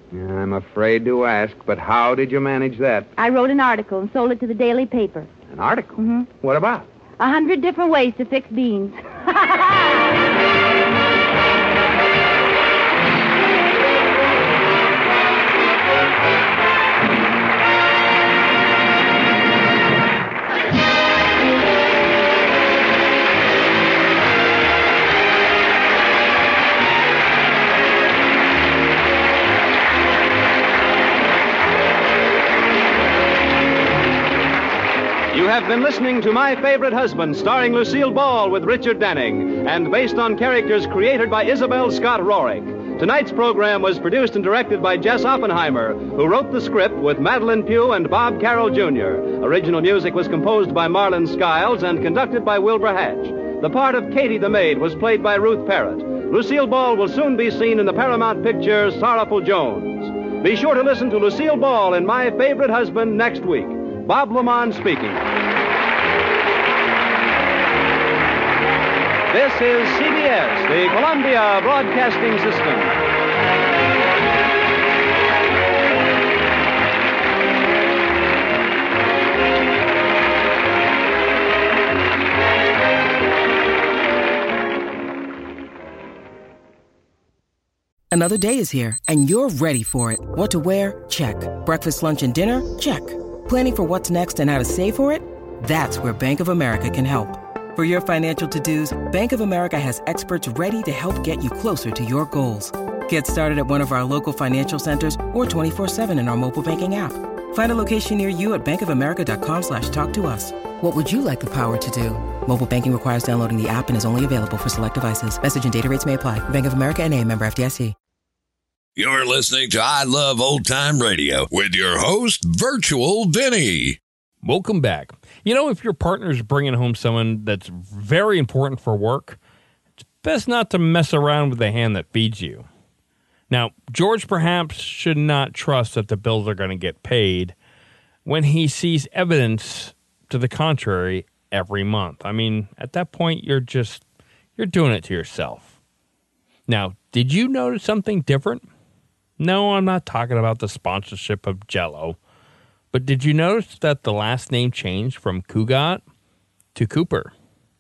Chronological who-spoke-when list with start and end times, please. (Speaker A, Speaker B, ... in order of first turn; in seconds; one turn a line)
Speaker A: 0.1-3.1
Speaker B: 3.2-5.3
Speaker A: 5.5-6.9
Speaker B: 6.0-6.3
Speaker B: 7.2-10.0
Speaker C: 35.3-65.2
Speaker C: 69.3-72.9
Speaker D: 88.1-117.9
Speaker E: 119.0-124.0
Speaker F: 124.4-129.4
Speaker F: 130.2-132.7
Speaker F: 133.5-137.6
Speaker F: 138.2-144.0
Speaker F: 144.6-145.7
Speaker F: 146.7-148.7
Speaker F: 149.4-152.2
Speaker F: 152.9-156.0
Speaker F: 156.7-157.3